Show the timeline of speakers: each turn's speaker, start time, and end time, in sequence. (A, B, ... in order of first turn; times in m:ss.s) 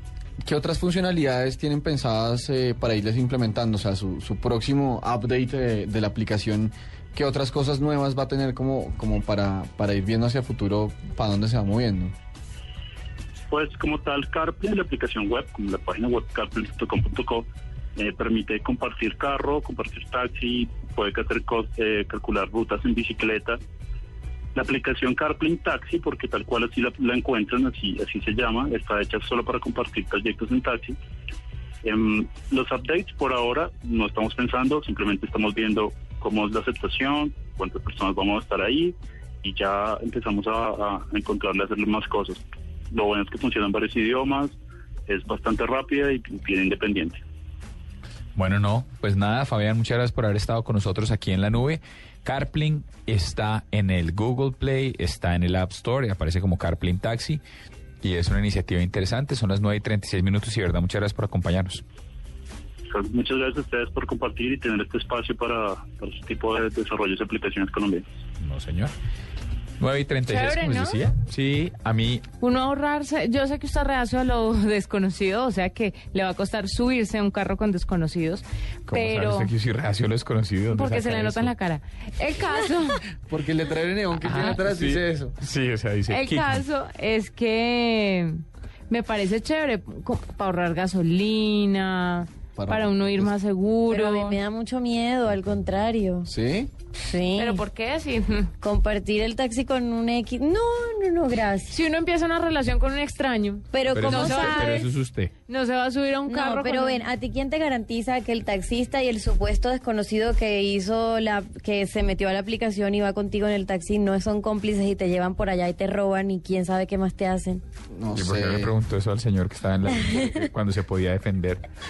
0:00.4-0:12.1 A
0:13.5-0:23.6 B
0:24.6-0:31.0 B
0:31.8-0:44.6 B
0:45.1-0:47.2 B
0:48.4-0:57.4 C
0:58.0-1:01.8 C
1:02.9-1:08.1 B
1:08.4-1:08.9 C
1:09.8-1:12.3 C
1:10.2-1:11.0 D
1:12.4-1:19.5 D
1:18.9-1:21.5 C
1:20.7-1:23.0 D
1:23.3-1:25.4 A
1:24.2-1:26.6 C
1:26.1-1:34.4 D
1:32.6-1:33.3 A
1:33.9-1:36.3 E
1:36.2-1:36.7 A
1:37.0-1:37.6 E
1:37.4-1:38.5 D
1:38.6-1:41.8 E
1:41.7-1:44.9 D
1:43.7-1:44.8 E
1:43.9-1:45.3 C
1:45.5-1:47.0 D
1:46.3-1:57.6 E
1:57.9-1:58.8 A
1:58.1-2:01.6 C